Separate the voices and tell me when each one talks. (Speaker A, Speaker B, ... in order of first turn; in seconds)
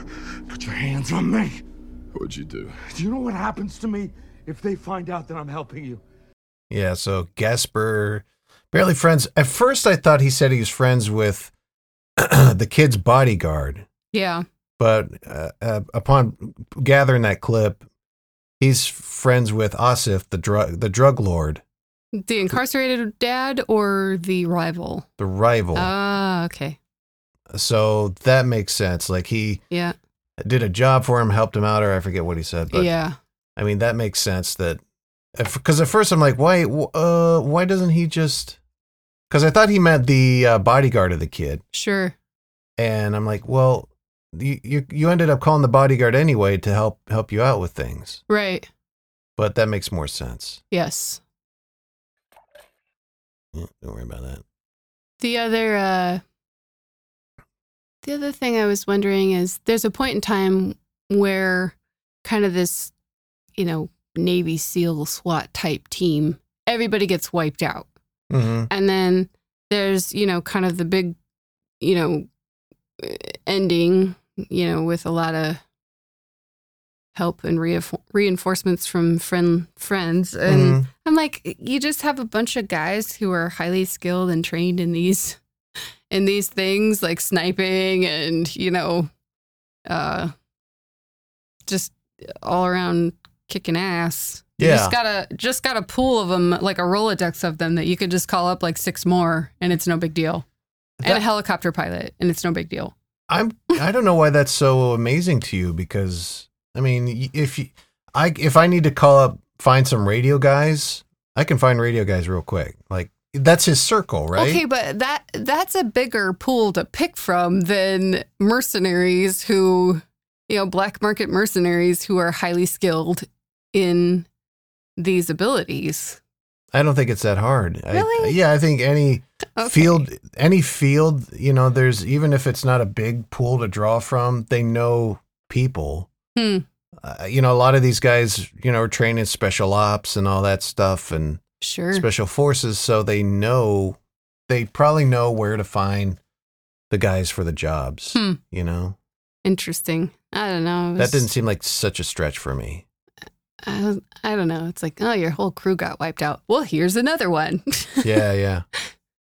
Speaker A: 0.5-6.0
Speaker B: 6.7-11.5, 12.2-13.8, 14.8-17.8, 18.6-21.6, 25.2-25.9, 27.5-29.6, 30.4-33.0, 33.6-34.8, 35.4-38.6, 39.3-41.6, 42.8-48.2, 49.4-50.6, 53.5-54.4, 68.3-68.7, 80.5-80.9, 94.6-95.0, 103.3-114.6, 126.7-136.1, 137.0-141.4, 141.9-144.0, 144.5-146.2, 146.9-148.9, 151.0-152.8, 158.0-158.6
Speaker C: 14.1-14.4, 22.2-25.1, 25.7-26.8, 29.7-29.9, 32.7-33.1, 41.7-42.1, 48.3-48.7, 50.7-51.2, 55.2-56.2, 58.0-62.9, 63.6-67.9, 68.7-71.1, 71.8-72.3, 73.0-75.6, 77.1-85.4, 86.1-89.1, 89.9-90.3, 91.7-100.4, 101.0-102.9, 114.3-124.3, 125.0-126.2, 127.9-128.4, 129.6-130.0, 136.3-136.6, 141.6-142.1, 148.1-148.4, 149.4-151.3, 153.6-158.1